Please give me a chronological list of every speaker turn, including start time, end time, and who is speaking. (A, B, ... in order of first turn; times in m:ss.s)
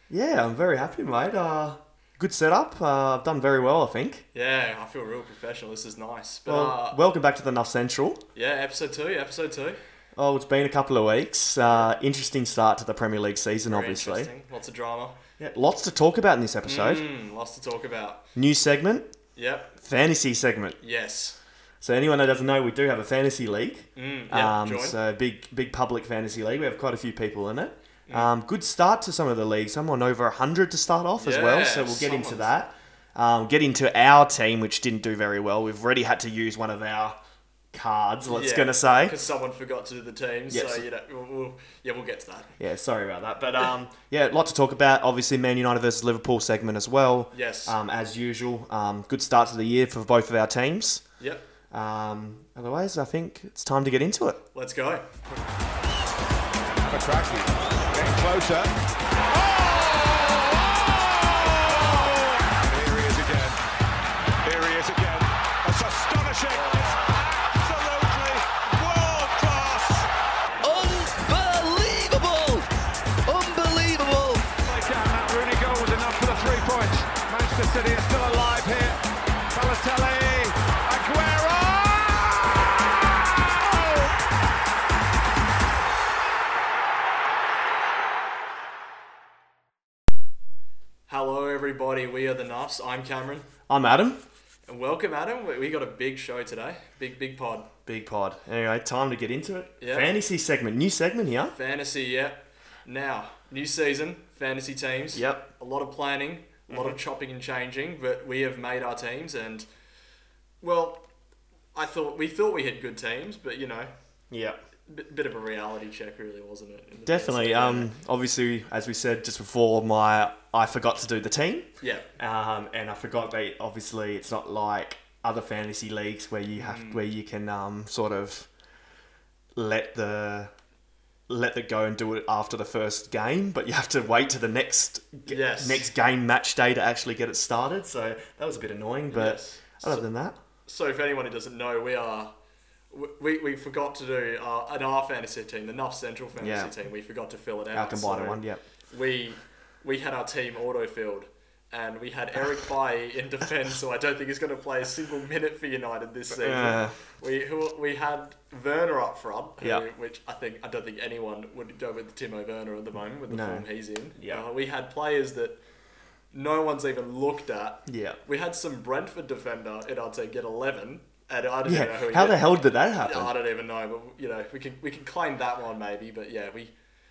0:00.1-0:04.2 A
0:04.3-0:07.0 B
0:06.5-0:08.2 A
0:08.3-0:09.8 B
0:10.2-0:14.3 A
0:11.6-0:11.9 B
0:13.7-0:15.2 B
0:15.4-0:17.0 A
0:16.6-0:18.2 B
0:18.4-0:19.1 A
0:19.3-0:19.8 B
0:19.8-0:20.8 A
0:20.8-0:21.4 B
0:21.8-0:37.2 A
0:24.0-0:25.0 B
0:31.2-0:32.5 B
0:37.7-0:39.2 A
0:38.3-0:42.5 B
0:40.5-0:40.8 A
0:42.6-0:51.0 A
0:47.3-0:47.8 B
0:51.2-0:51.4 B
0:51.7-0:54.4 A
0:54.5-0:55.1 B
0:56.9-0:58.7 C
0:59.3-1:03.6 C
1:04.4-1:10.1 C
1:10.6-1:12.7 D
1:13.2-1:14.5 D
1:14.6-1:19.0 C
1:19.5-1:24.1 C
1:31.1-1:33.5 B
1:33.7-1:34.2 A
1:34.7-1:37.7 B
1:37.8-1:41.5 A
1:39.8-1:40.1 B
1:41.5-1:49.6 B
1:45.1-1:45.5 A
1:46.7-1:47.0 A
1:50.6-1:51.1 B
1:51.7-1:53.9 B
1:54.3-1:54.6 A
1:54.9-1:57.9 B
1:57.1-2:08.5 A
2:01.8-2:02.1 B
2:06.6-2:07.0 B
2:09.6-2:10.5 A
2:11.3-2:20.4 A
2:15.2-2:15.9 B
2:19.1-2:20.1 B
2:20.6-2:22.3 B
2:22.9-2:45.6 B
2:26.4-2:26.7 A
2:27.7-2:28.6 A
2:36.3-2:37.0 A
2:43.3-2:44.4 A
2:46.3-2:56.7 B
2:47.9-2:48.2 A
2:51.6-2:53.3 A